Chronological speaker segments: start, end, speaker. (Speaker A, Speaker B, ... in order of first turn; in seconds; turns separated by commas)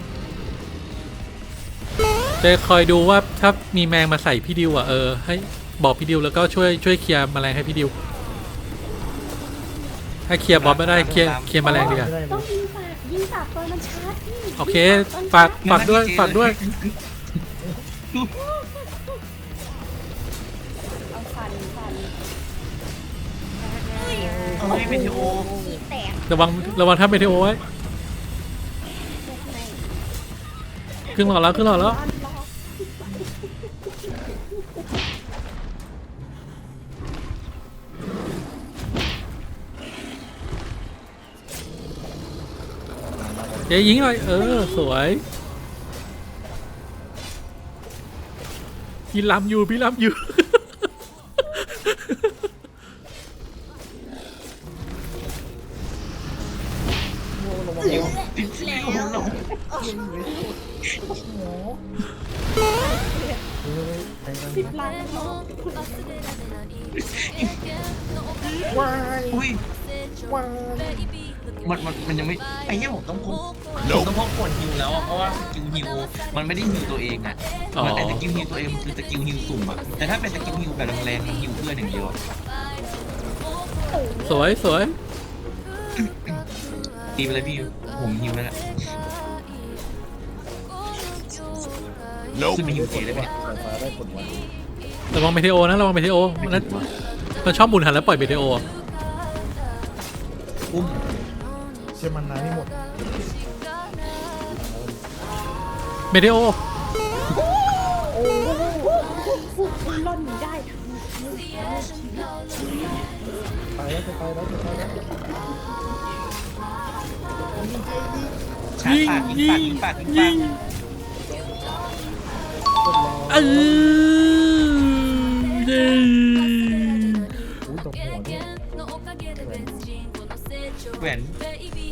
Speaker A: 2.4-7.9, Speaker A: 10.3-12.2, Speaker B: 10.5-12.1, Speaker C: 11.0-12.5, Speaker D: 11.7-15.6, Speaker A: 14.6-16.6, Speaker B: 15.6-17.0, Speaker D: 21.1-22.1, Speaker D: 23.9-27.0, Speaker B: 24.6-25.5, Speaker A: 26.3-27.6, Speaker D: 29.2-29.9, Speaker A: 31.1-32.0, Speaker D: 31.1-32.5, Speaker C: 43.1-44.5, Speaker A: 43.7-45.2, Speaker D: 44.2-44.9, Speaker A: 49.1-50.7, Speaker A: 51.5-52.3, Speaker C: 57.3-58.2, Speaker D: 57.8-60.5, Speaker B: 57.8-59.6, Speaker C: 59.8-60.5, Speaker C: 61.1-61.8, Speaker D: 62.6-63.5, Speaker C: 63.6-65.0, Speaker D: 64.5-66.6, Speaker B: 67.0-67.5, Speaker C: 68.7-69.5, Speaker B: 69.3-69.6, Speaker C: 70.2-71.1, Speaker B: 71.6-82.2, Speaker A: 77.7-78.2, Speaker D: 83.8-84.5, Speaker A: 84.2-85.0, Speaker B: 86.0-86.4, Speaker B: 87.2-89.0, Speaker B: 92.5-93.3, Speaker C: 92.6-94.5, Speaker A: 95.1-96.7, Speaker A: 97.4-98.6, Speaker B: 100.7-101.0, Speaker C: 102.0-102.8, Speaker C: 104.5-105.0, Speaker A: 106.1-106.6, Speaker D: 108.1-113.0, Speaker C: 108.2-108.9, Speaker C: 113.7-115.0, Speaker C: 117.6-118.3, Speaker B: 118.8-120.4, Speaker A: 118.8-120.6, Speaker C: 122.8-123.9, Speaker A: 123.3-127.3, Speaker C: 127.6-128.5, Speaker C: 129.3-129.8, Speaker B: 131.0-131.4